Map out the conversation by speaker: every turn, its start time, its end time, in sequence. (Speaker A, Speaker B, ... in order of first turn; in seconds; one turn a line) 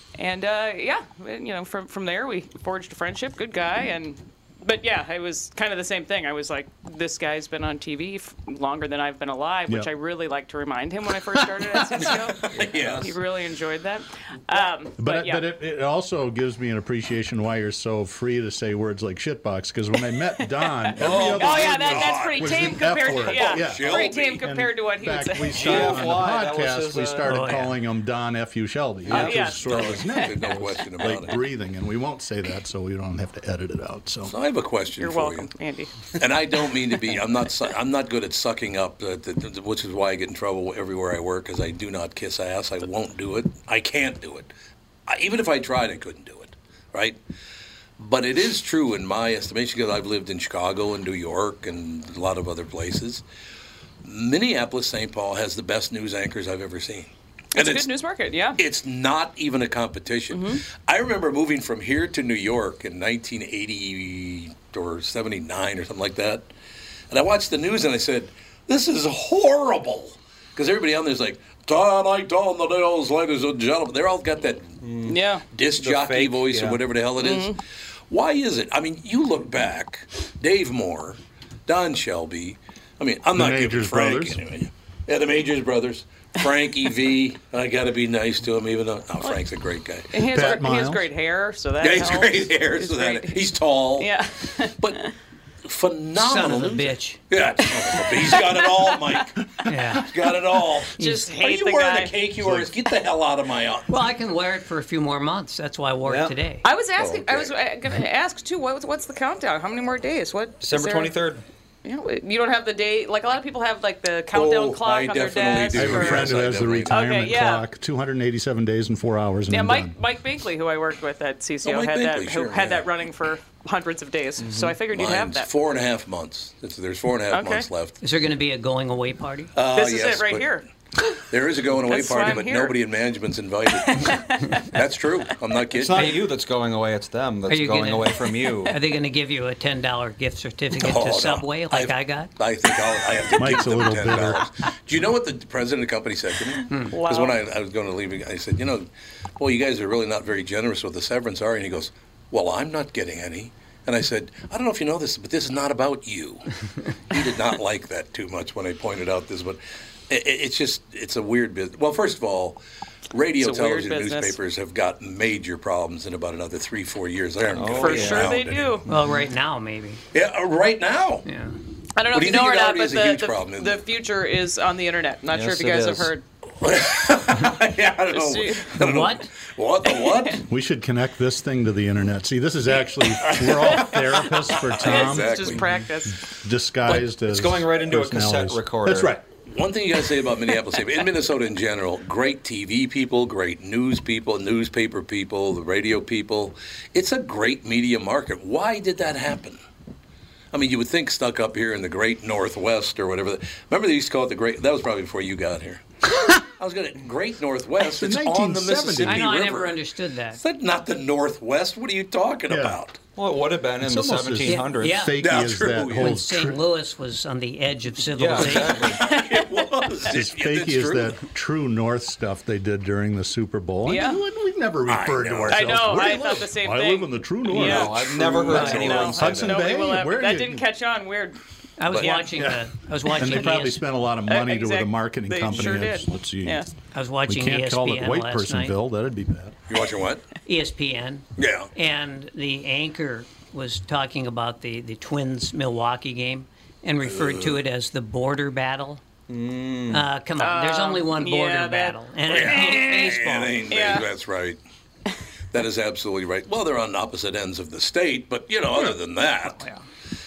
Speaker A: 0.2-15.4
Speaker B: 11.6-12.0
Speaker C: 12.4-13.1
Speaker B: 15.0-34.3
Speaker A: 20.7-26.1
Speaker C: 21.0-24.4
Speaker D: 25.5-27.5
Speaker E: 27.2-27.8
Speaker D: 29.1-29.4
Speaker A: 29.1-30.6
Speaker C: 29.4-31.4
Speaker C: 34.2-35.5
Speaker A: 35.0-36.0
Speaker C: 36.1-44.5
Speaker C: 45.1-47.2
Speaker C: 48.0-53.2
Speaker C: 54.0-57.9
Speaker A: 57.5-58.6
Speaker C: 58.6-66.5
Speaker A: 60.3-60.6
Speaker C: 67.1-74.8
Speaker D: 74.8-75.2
Speaker A: 75.0-75.4
Speaker C: 75.5-90.1
Speaker D: 75.7-76.8
Speaker A: 77.2-77.6
Speaker B: 83.3-84.4
Speaker A: 90.1-93.3
Speaker B: 90.3-91.0
Speaker C: 91.8-94.1
Speaker A: 94.0-95.1
Speaker C: 95.6-103.9
Speaker E: 96.2-97.2
Speaker A: 98.2-99.2
Speaker E: 99.7-100.1
Speaker E: 101.0-101.3
Speaker A: 101.0-102.1
Speaker B: 102.4-102.7
Speaker E: 103.9-106.6
Speaker D: 106.0-106.3
Speaker A: 106.6-111.2
Speaker C: 107.0-107.5
Speaker D: 110.6-111.4
Speaker A: 111.8-117.6
Speaker C: 114.3-117.0
Speaker B: 115.7-119.9
Speaker A: 119.5-125.5
Speaker C: 121.6-122.9
Speaker D: 124.4-124.8
Speaker C: 124.9-128.0
Speaker A: 127.3-127.7
Speaker E: 128.0-129.5
Speaker C: 129.5-130.5
Speaker A: 129.7-130.6
Speaker C: 131.2-136.2
Speaker A: 131.9-132.8
Speaker A: 133.8-134.7
Speaker D: 135.8-138.8
Speaker E: 135.9-136.3
Speaker E: 137.5-142.3
Speaker C: 140.8-148.9
Speaker B: 143.3-144.4
Speaker A: 146.8-147.4
Speaker C: 149.4-156.5
Speaker C: 157.1-162.6
Speaker C: 163.1-168.8
Speaker A: 163.4-164.3
Speaker D: 167.5-168.4
Speaker A: 167.8-168.8
Speaker E: 168.8-170.0
Speaker C: 170.1-171.2
Speaker E: 171.2-171.5
Speaker A: 172.0-176.2
Speaker C: 172.1-173.8
Speaker D: 175.3-176.1
Speaker C: 176.6-180.4
Speaker A: 178.1-178.7
Speaker E: 178.8-179.3
Speaker A: 179.9-180.3
Speaker B: 180.5-185.6
Speaker C: 183.2-184.0
Speaker A: 183.5-184.0
Speaker C: 184.6-185.6
Speaker A: 184.6-186.2
Speaker B: 186.4-189.2
Speaker D: 186.9-189.2
Speaker C: 189.5-199.6
Speaker C: 200.5-205.8
Speaker C: 206.3-209.8
Speaker B: 207.8-209.3
Speaker E: 209.0-210.4
Speaker C: 210.3-213.0
Speaker B: 212.5-212.8
Speaker D: 213.2-215.1
Speaker B: 213.8-216.6
Speaker E: 214.4-215.2
Speaker C: 215.2-216.1
Speaker E: 215.9-218.9
Speaker D: 218.1-219.0
Speaker C: 218.6-221.2
Speaker B: 220.1-230.7
Speaker A: 223.8-224.2
Speaker C: 224.9-225.8
Speaker A: 225.5-231.4
Speaker D: 227.5-229.6
Speaker C: 228.5-229.0
Speaker E: 228.6-228.8
Speaker E: 231.8-233.8
Speaker C: 231.9-232.2
Speaker A: 231.9-232.3
Speaker B: 232.4-232.6
Speaker B: 233.1-236.7
Speaker A: 234.3-236.7
Speaker E: 236.9-238.7
Speaker B: 237.3-239.5
Speaker C: 239.7-240.3
Speaker E: 240.4-249.0
Speaker C: 241.4-241.7
Speaker C: 247.1-247.6
Speaker D: 249.3-250.1
Speaker E: 249.9-253.8
Speaker A: 250.4-252.8
Speaker C: 252.3-254.6
Speaker A: 253.7-254.1
Speaker C: 255.5-259.6